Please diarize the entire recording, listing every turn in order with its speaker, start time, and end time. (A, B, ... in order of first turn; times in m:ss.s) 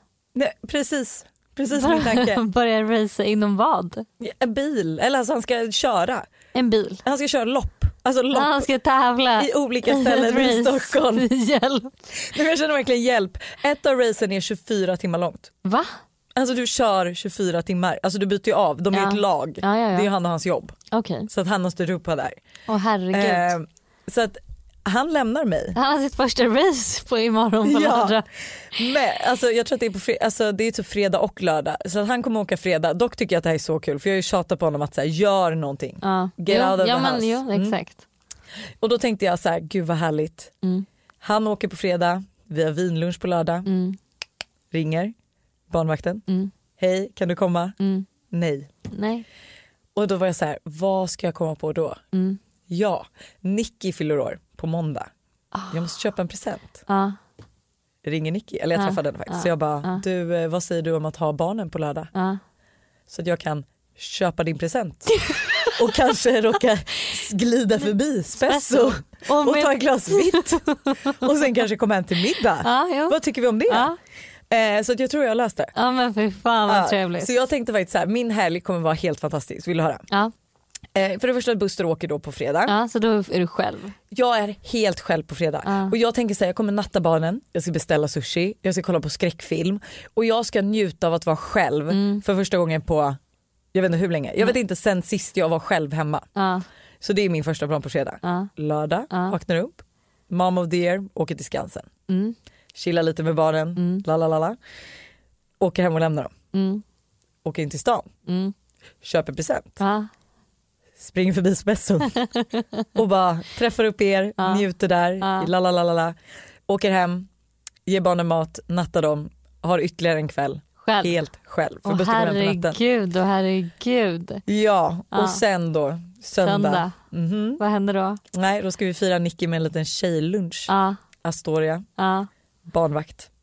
0:00.3-0:02.4 A
0:01.7-0:04.0 B
0:04.2-0:06.2 A
0:06.5-0:07.0 B
0:07.0-0:08.7 A
0:08.3-0:11.9 B
0:09.4-0:11.3 A
0:12.1-0:15.5 A
0:15.6-0:15.9 B
0:16.4-0:20.7 A
0:18.9-0:20.1 B
0:20.9-0:21.3 B
0:21.3-0:22.4 A
0:22.7-0:23.6 B
0:23.1-0:25.8 A
0:25.7-0:28.2 B
0:27.6-0:28.2 A
0:28.7-0:37.8 A
0:36.0-0:38.0 B
0:38.8-0:40.5 A
0:41.2-0:43.7 A
0:43.6-0:44.0 B
0:44.7-0:45.1 A
0:45.7-0:46.2 A
0:46.8-0:47.7 A
0:47.8-0:48.1 B
0:48.3-0:48.7 A
0:48.9-0:49.2 B
0:49.9-0:52.0 A
0:52.1-0:52.4 B
0:52.7-0:55.1 A
0:55.5-0:55.8 B
0:55.7-0:56.8 A
0:56.9-0:57.2 B
0:58.0-1:02.1 A
0:58.8-1:00.0 B
1:02.1-1:02.4 B
1:03.1-1:13.9 A
1:05.2-1:06.0 B
1:08.4-1:11.6 B
1:12.6-1:14.0 B
1:14.5-1:15.7 A
1:15.7-1:17.3 B
1:16.7-1:20.0 A
1:20.9-1:22.7 A
1:22.7-1:24.0 B
1:24.1-1:33.2 A
1:25.6-1:25.9 B
1:31.9-1:32.2 B
1:33.7-1:36.2 A
1:36.4-1:36.6 B
1:37.0-1:41.9 A
1:38.2-1:38.5 B
1:42.1-1:42.3 B
1:42.7-1:44.6 A
1:43.8-1:44.0 B
1:45.6-1:46.3 A
1:46.5-1:46.8 B
1:47.4-1:48.1 A
1:48.3-1:48.5 B
1:49.0-1:49.8 A
1:49.8-1:50.1 B
1:51.0-1:52.2 A
1:52.2-1:52.8 B
1:53.0-1:56.1 A
1:54.4-1:54.6 B
1:55.2-1:55.5 B
1:56.7-1:57.3 A
1:57.8-2:02.8 A
2:00.8-2:01.2 B
2:01.8-2:04.4 B
2:04.5-2:07.6 A
2:05.1-2:05.4 B
2:06.4-2:07.0 B
2:07.6-2:08.2 B
2:08.3-2:10.7 A
2:10.7-2:11.0 B
2:11.2-2:11.8 A
2:12.0-2:12.3 B
2:12.7-2:13.3 A